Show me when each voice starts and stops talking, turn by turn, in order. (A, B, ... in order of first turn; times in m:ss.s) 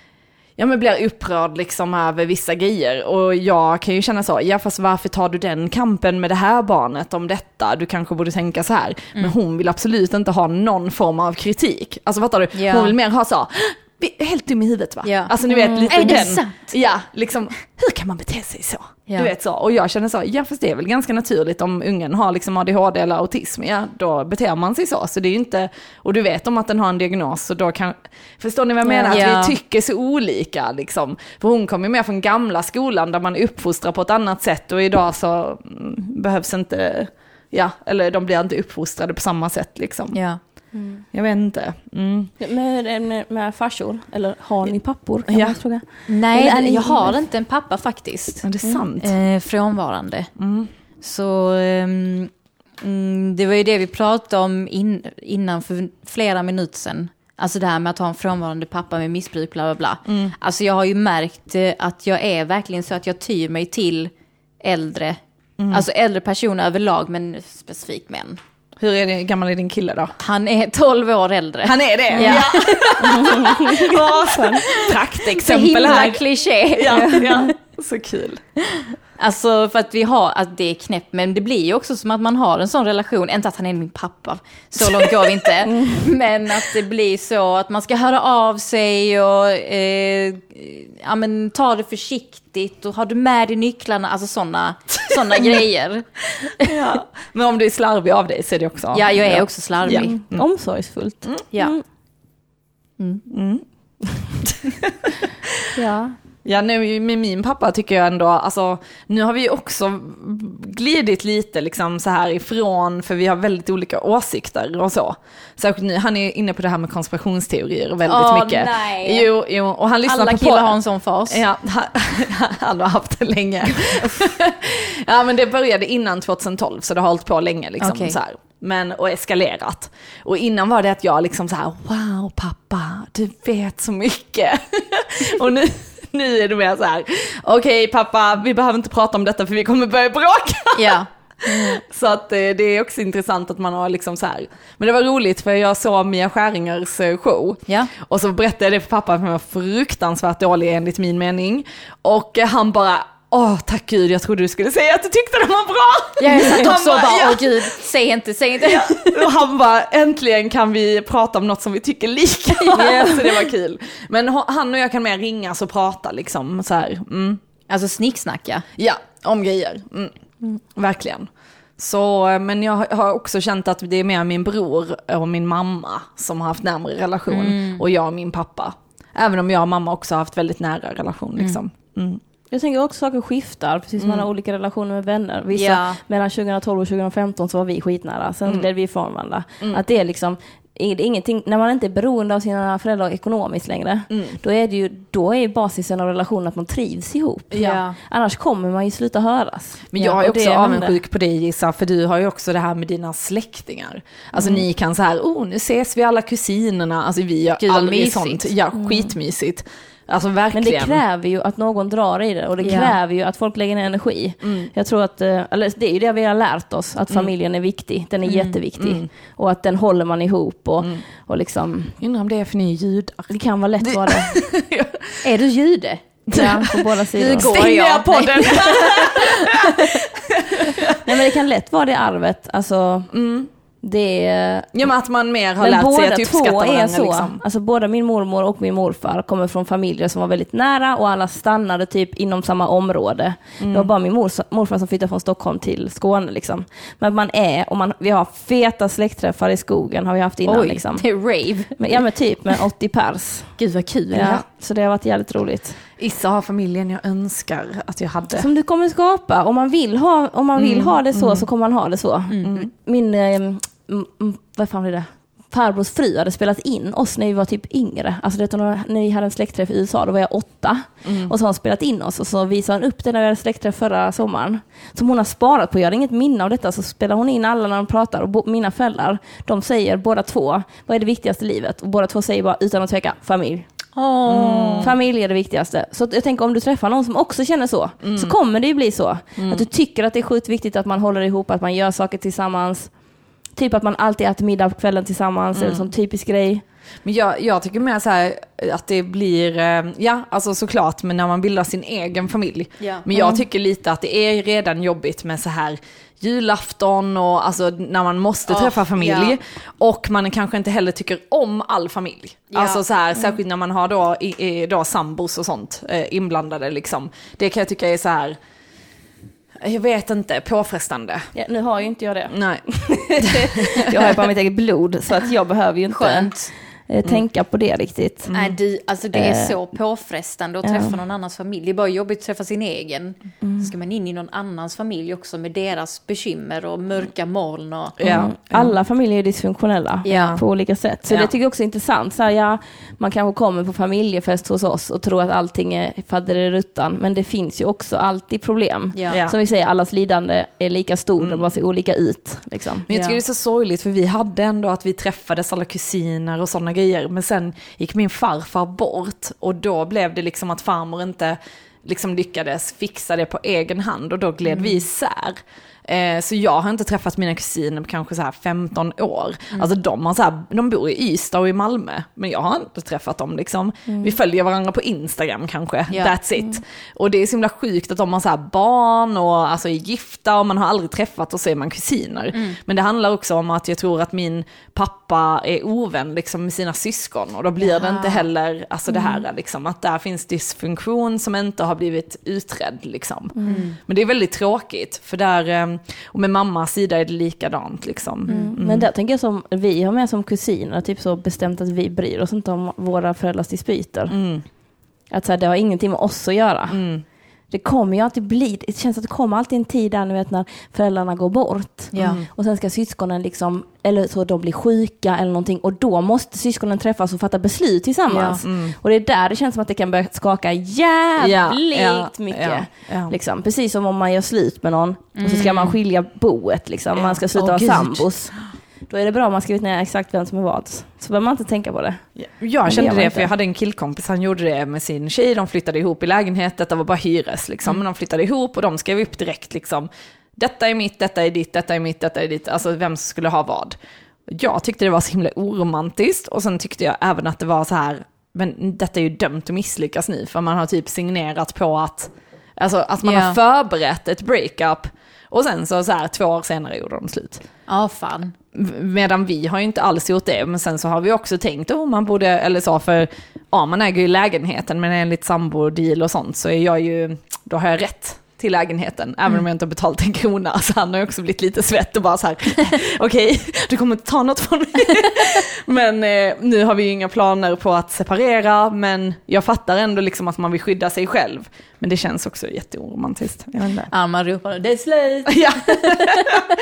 0:00.6-0:40.2 A
0:12.5-0:12.9 B
0:15.0-0:15.3 B
0:15.4-0:16.2 C
0:15.9-0:16.7 B
0:28.8-0:29.6 B
0:40.1-0:40.4 B
0:40.7-0:41.0 C
0:41.1-0:42.3 A
0:42.4-0:47.2 C
0:45.3-0:45.6 A
0:46.1-0:48.4 B
0:48.4-0:49.1 A
0:49.0-0:50.3 B
0:50.4-0:50.7 A
0:51.0-1:04.1 B
1:00.1-1:00.3 A
1:04.6-1:05.2 B
1:05.6-1:05.8 A
1:05.7-1:08.4 B
1:08.8-1:10.1 A
1:10.2-1:13.6 B
1:11.6-1:18.4 A
1:12.1-1:12.4 C
1:13.0-1:14.6 C
1:14.6-1:17.5 B
1:16.9-1:17.5 C
1:19.2-1:36.8 B
1:24.8-1:25.4 A
1:25.6-1:26.1 C
1:36.6-1:40.4 A
1:38.9-1:40.1 B
1:39.8-1:41.8 C
1:43.3-1:43.6 A
1:44.4-1:45.7 A
1:45.7-1:46.2 C
1:46.4-2:00.8 A
1:58.0-1:59.3 B
2:00.0-2:01.4 B
2:01.3-2:37.7 A
2:07.8-2:08.2 B
2:20.8-2:21.8 B
2:36.2-2:39.3 B
2:38.6-2:47.4 A
2:42.6-2:43.2 B
2:42.8-2:43.3 C
2:47.7-2:48.6 B
2:48.8-2:50.1 A
2:50.7-3:02.2 A
2:57.3-2:57.8 B
3:02.5-3:21.0 C
3:04.0-3:04.2 A
3:05.5-3:06.0 B
3:14.1-3:14.4 A
3:17.5-3:17.8 A
3:17.5-3:18.0 B
3:19.9-3:31.0 A
3:27.6-3:28.5 B
3:28.7-3:29.1 C
3:30.5-3:42.0 C
3:32.6-3:33.0 B
3:34.4-3:34.7 A
3:38.2-3:38.6 B
3:38.8-3:39.1 A
3:42.0-3:45.2 A
3:43.3-3:44.4 C
3:45.2-3:46.0 B
3:46.3-3:51.1 A
3:46.3-3:47.5 C
3:47.2-3:50.0 B
3:51.0-3:53.1 C
3:53.1-3:53.5 A
3:53.8-3:54.9 C
3:54.7-3:57.4 A
3:55.6-4:11.0 C
4:03.6-4:03.9 A
4:10.4-4:11.9 B
4:11.8-4:13.5 C
4:13.6-4:14.4 B
4:14.1-4:15.8 C
4:16.0-4:18.5 A
4:18.3-4:43.6 C
4:20.6-4:21.4 A
4:22.3-4:22.6 B
4:31.0-4:31.3 A
4:44.0-4:44.9 B
4:44.3-4:44.9 A
4:44.8-4:52.9 C
4:48.0-4:48.3 A
4:49.4-4:49.6 A
4:53.6-4:56.6 C
4:55.5-4:55.8 A
4:57.0-5:18.4 A
5:02.8-5:03.0 B
5:03.1-5:03.4 C
5:08.5-5:09.4 B
5:12.5-5:12.8 B
5:19.6-5:21.2 A
5:21.3-5:26.3 C
5:22.3-5:22.6 A
5:23.2-5:24.2 A
5:25.9-5:26.5 B
5:26.9-5:28.3 C
5:28.3-5:28.5 A
5:28.3-5:38.0 B
5:29.1-5:29.6 C
5:30.6-5:31.0 C
5:33.4-5:33.7 C
5:38.0-5:38.7 A
5:38.0-5:52.9 C
5:40.0-5:40.4 B
5:52.9-6:38.9 A
5:52.9-5:53.2 B
6:04.5-6:04.8 B
6:13.9-6:14.1 C
6:15.9-6:16.1 B
6:22.3-6:22.6 B
6:27.6-6:28.2 B
6:33.4-6:33.6 C
6:33.4-6:33.8 B
6:38.3-6:38.5 B
6:38.3-6:44.2 C
6:44.1-6:44.4 A
6:45.1-6:46.8 C
6:46.7-6:47.0 A
6:47.5-7:08.3 C
6:51.9-6:52.2 B
6:52.0-6:52.3 A
6:58.1-6:58.4 B
6:58.4-6:58.7 A
7:01.2-7:03.1 A
7:05.2-7:05.8 B
7:07.0-7:08.1 A
7:08.9-7:12.0 C
7:12.2-7:23.8 A
7:12.6-7:13.3 C
7:24.3-7:37.4 A
7:33.0-7:33.4 B
7:37.7-7:38.3 B
7:38.5-8:03.9 A
8:03.9-8:06.4 B
8:05.3-8:06.5 A